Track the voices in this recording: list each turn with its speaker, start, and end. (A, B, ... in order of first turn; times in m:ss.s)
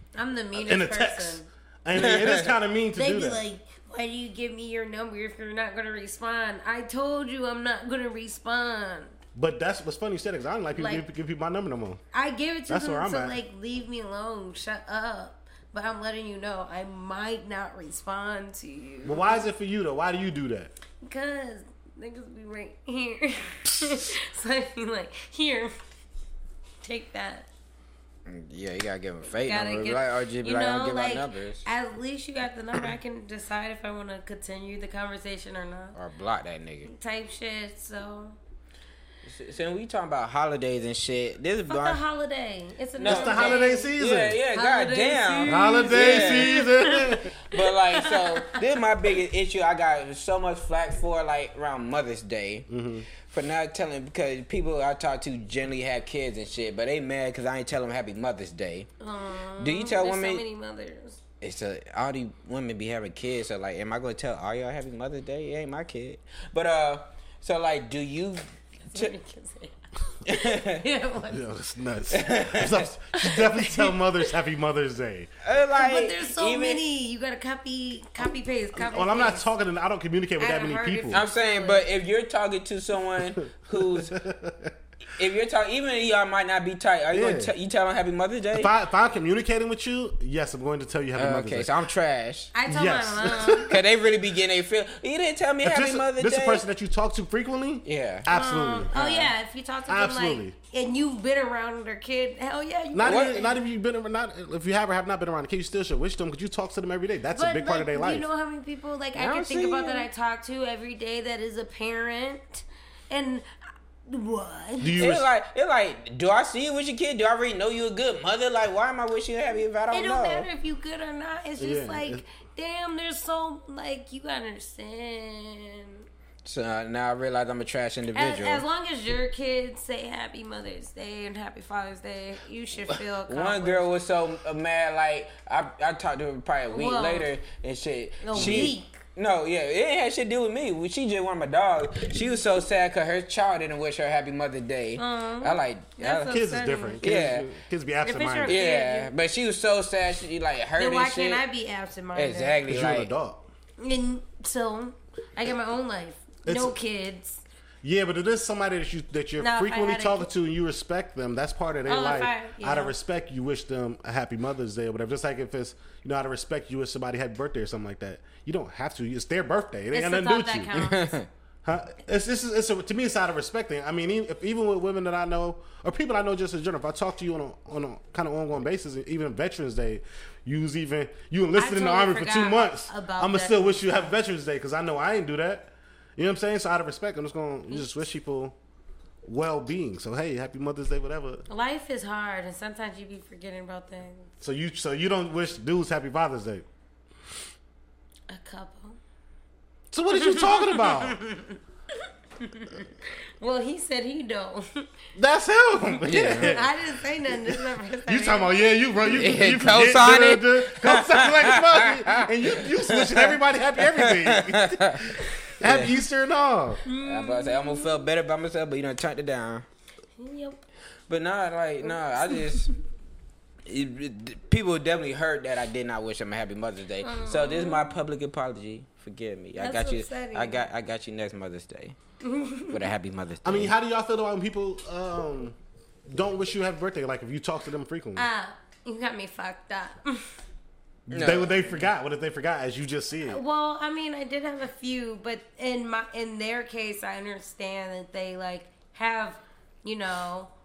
0:00.1-0:01.5 A
0:00.5-0:03.4 B
0:01.9-0:02.5 C
0:03.0-0:09.1 A
0:09.3-0:12.0 B
0:10.7-0:11.0 A
0:12.1-0:19.4 A
0:12.7-0:13.4 B
0:19.0-0:20.7 B
0:21.0-0:25.7 A
0:26.8-0:27.5 A
0:28.2-0:31.6 C
0:29.4-0:36.0 A
0:35.9-0:36.9 C
0:36.8-0:38.4 A
0:39.2-0:42.0 C
0:41.7-0:43.9 A
0:43.0-0:46.6 C
0:43.0-0:44.4 B
0:44.5-0:48.6 A
0:45.4-0:47.3 B
0:47.5-0:52.7 C
0:52.7-0:53.1 B
0:53.2-0:58.9 C
0:59.0-1:01.2 A
0:59.6-1:00.4 C
1:01.4-1:09.1 C
1:08.9-1:11.5 A
1:10.2-1:10.8 C
1:11.3-1:15.3 B
1:12.1-1:12.9 C
1:13.1-1:14.0 A
1:15.4-1:16.8 C
1:15.7-1:19.5 A
1:18.7-1:21.2 B
1:20.4-1:21.8 A
1:21.1-1:24.2 C
1:23.7-1:24.7 B
1:25.1-1:28.7 C
1:27.1-1:27.5 B
1:28.5-1:31.7 B
1:31.2-1:32.5 C
1:32.5-1:33.8 A
1:32.6-1:33.8 B
1:33.7-1:36.6 C
1:35.6-1:38.9 B
1:37.8-1:38.3 C
1:38.3-1:43.5 A
1:38.9-1:39.3 C
1:39.9-1:40.5 B
1:42.9-1:48.2 B
1:43.0-1:43.4 C
1:47.3-1:53.5 A
1:49.1-1:50.1 C
1:54.0-1:55.0 A
1:54.8-1:55.3 B
1:55.0-2:00.5 C
1:59.9-2:06.0 A
2:01.6-2:02.2 B
2:06.4-2:08.6 C
2:08.1-2:13.9 A
2:12.9-2:26.4 C
2:16.7-2:17.3 A
2:18.2-2:19.0 A
2:18.3-2:18.7 B
2:25.0-2:27.0 A
2:26.3-2:28.6 B
2:27.0-2:27.4 C
2:28.0-2:29.1 A
2:28.5-2:31.4 C
2:30.8-2:32.6 A
2:32.1-2:33.1 C
2:32.7-2:33.5 B
2:33.8-2:37.4 A
2:36.4-2:36.8 B
2:37.8-2:50.8 B
2:39.4-2:40.3 A
2:41.8-2:42.9 A
2:49.9-2:51.1 A
2:50.7-2:51.3 C
2:51.6-3:08.6 B
3:01.6-3:03.9 A
3:07.7-3:08.0 A
3:09.2-3:11.4 B
3:11.5-3:14.3 A
3:14.4-3:16.6 B
3:18.3-3:19.0 A
3:19.9-3:21.2 B
3:20.1-3:21.6 A
3:22.4-3:24.9 A
3:25.1-3:36.8 B
3:26.0-3:26.6 C
3:26.2-3:28.6 A
3:29.1-3:35.9 C
3:36.8-3:38.0 A
3:37.0-3:39.6 C
3:40.2-3:40.6 A
3:41.1-3:42.7 C
3:41.8-3:42.7 A
3:43.6-3:52.0 C
3:47.0-3:48.0 A
3:49.6-3:50.6 A
3:52.2-3:52.8 A
3:52.7-3:53.7 C
3:53.4-3:55.6 B
3:56.1-3:58.2 B
3:58.2-4:00.3 A
4:01.1-4:03.4 B
4:01.1-4:01.8 C
4:03.2-4:10.5 A